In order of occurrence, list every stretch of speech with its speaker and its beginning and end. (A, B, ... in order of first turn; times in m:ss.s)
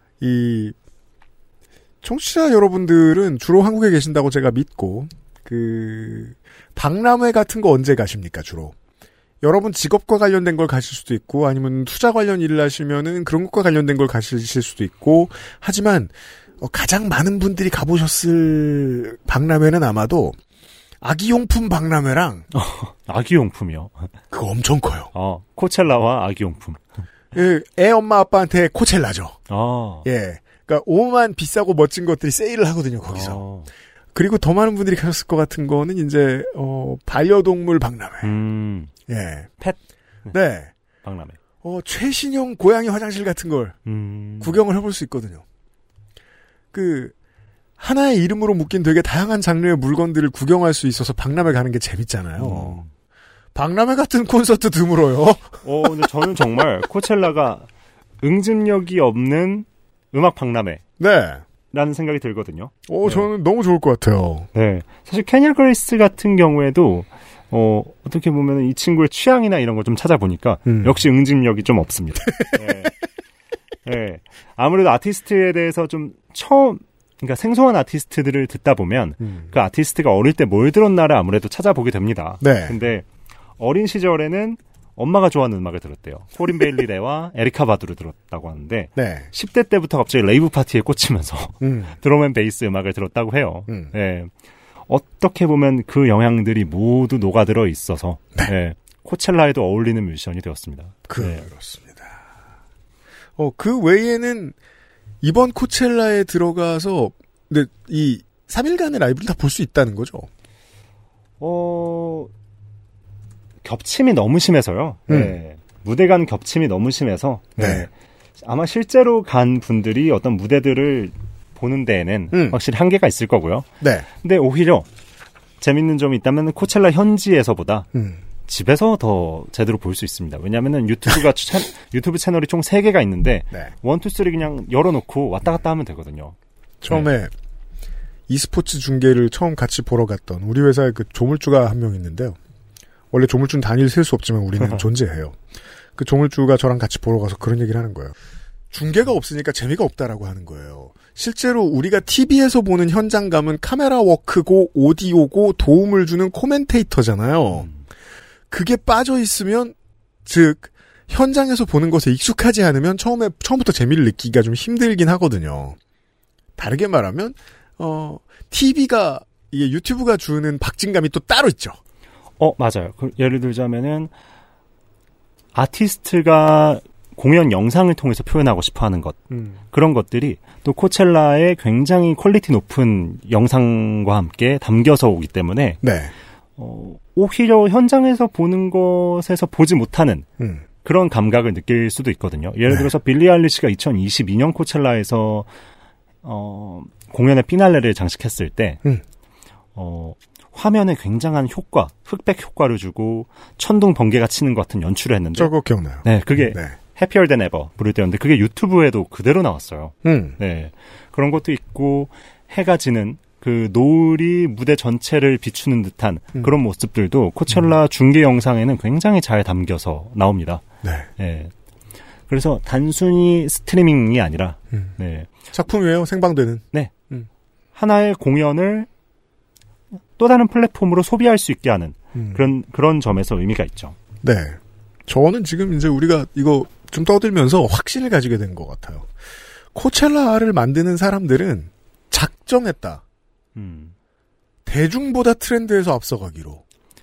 0:00.2-0:00.7 A
0:02.0-0:08.7 A
0:09.4-0:20.4 A
0:21.0-0:22.4 A
0:22.5-0:24.1 B
0:24.3-0:25.1 A
0:25.1-0:26.8 B
0:27.3-0:29.4 A
0:29.5-0:30.0 B
0:30.0-0:33.4 A
0:33.1-0:33.7 B
0:34.1-0:38.3 A
0:38.2-0:38.9 B
0:39.1-0:39.5 A
0:39.6-0:40.3 B
0:40.3-0:40.7 A
0:41.0-0:41.4 B
0:41.6-0:43.8 A
0:43.8-0:44.6 B
0:44.4-0:45.4 A
0:46.7-0:47.1 A
0:47.8-0:52.8 A
0:52.4-0:52.9 B
0:53.5-0:56.1 A
0:55.6-0:57.7 B
0:58.2-1:00.8 B
1:01.0-1:01.4 A
1:01.7-1:03.3 B
1:02.9-1:04.5 A
1:04.5-1:13.0 B
1:10.7-1:11.0 A
1:13.8-1:23.0 B
1:19.2-1:19.5 A
1:22.4-1:22.8 A
1:23.6-1:34.3 B
1:29.0-1:29.3 A
1:31.6-1:31.9 A
1:34.9-1:41.5 B
1:41.1-1:42.2 A
1:43.4-1:44.5 A
1:45.2-1:50.3 A
1:51.4-1:52.3 B
1:53.6-2:03.7 B
1:55.1-1:55.3 A
1:57.6-1:57.9 A
2:02.3-2:02.6 A
2:03.8-2:04.1 A
2:04.2-2:04.8 B
2:05.6-2:07.9 B
2:07.9-2:08.2 A
2:08.4-2:16.4 B
2:16.8-2:17.3 A
2:18.3-2:22.4 A
2:23.1-2:25.4 A
2:26.0-2:28.1 A
2:28.7-2:37.7 A
2:37.6-2:37.8 B
2:38.5-2:45.8 A
2:46.6-2:51.8 A
2:52.4-2:54.1 B
2:55.5-3:05.8 B
2:59.3-2:59.6 A
3:05.8-3:06.1 A
3:06.6-3:10.3 B
3:10.4-3:10.6 A
3:10.8-3:15.5 B
3:16.2-3:18.8 B
3:19.7-3:25.5 B
3:25.4-3:26.7 A
3:26.0-3:40.6 B
3:30.0-3:30.4 A
3:41.2-3:41.5 B
3:42.3-3:45.3 B
3:45.5-3:47.3 A
3:47.7-3:48.9 B
3:50.2-3:54.0 B
3:52.1-3:52.4 A
3:54.2-3:59.1 A
3:59.7-4:03.0 A
4:03.5-4:03.9 B
4:04.6-4:06.6 A